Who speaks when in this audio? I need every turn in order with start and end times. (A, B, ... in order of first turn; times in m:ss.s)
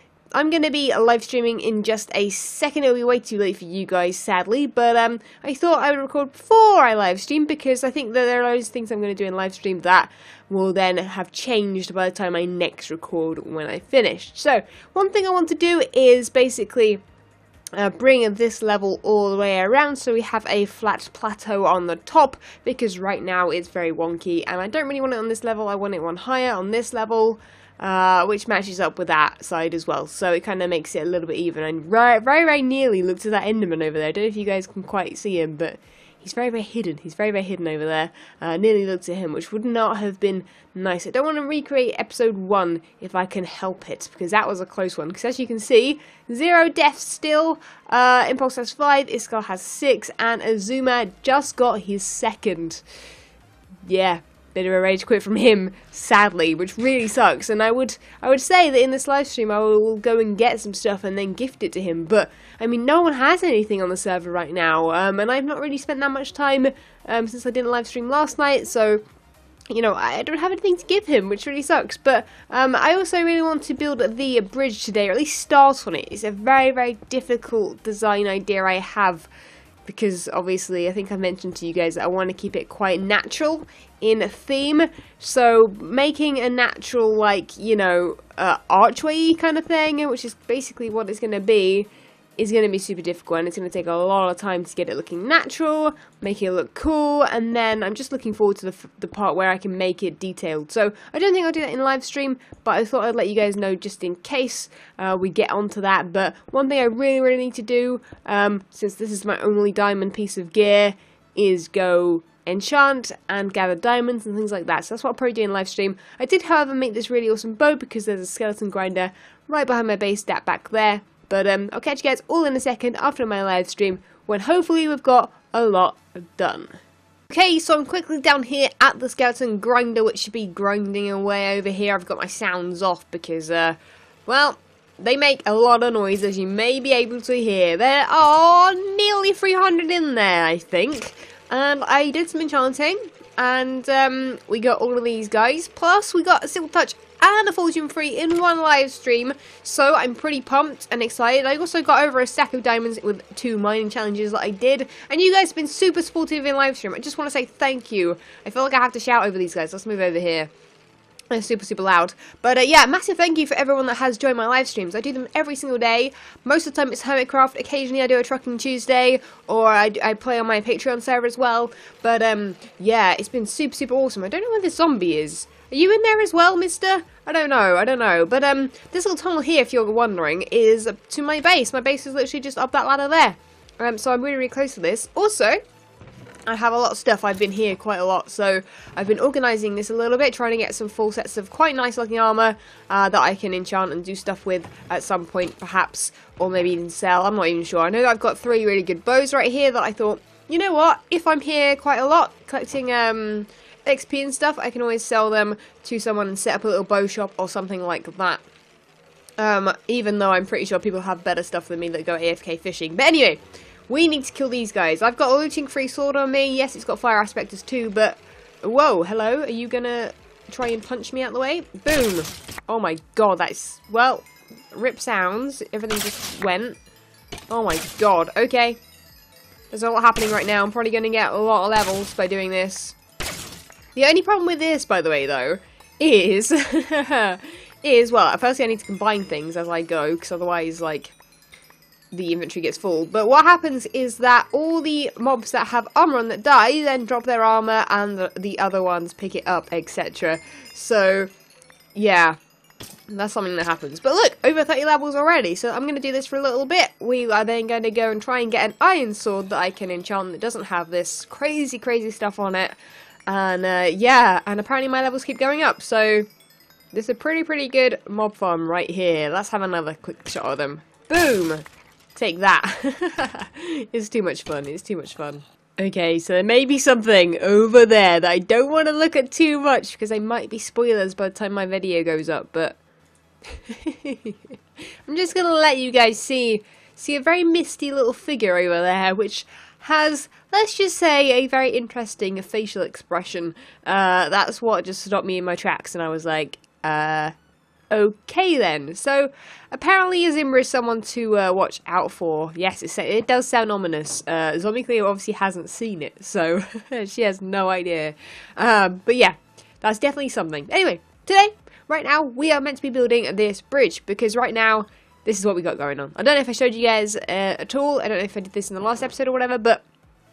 0:00.3-0:17.0 A
0:17.7-0:52.8 A
0:53.8-1:09.0 A
1:09.7-1:19.3 A
1:19.8-2:06.8 A
2:07.3-2:40.5 A
2:41.3-3:05.6 A
3:06.5-3:28.4 A
3:29.4-3:46.8 A
3:47.5-3:48.8 A
3:49.7-3:53.0 A
3:54.0-4:01.1 A
4:02.1-4:11.3 A
4:11.9-4:12.4 A
4:13.1-4:22.8 A
4:23.3-4:26.3 A
4:26.9-4:42.8 A
4:43.4-4:44.5 A
4:45.0-4:57.3 A
4:57.9-5:19.8 A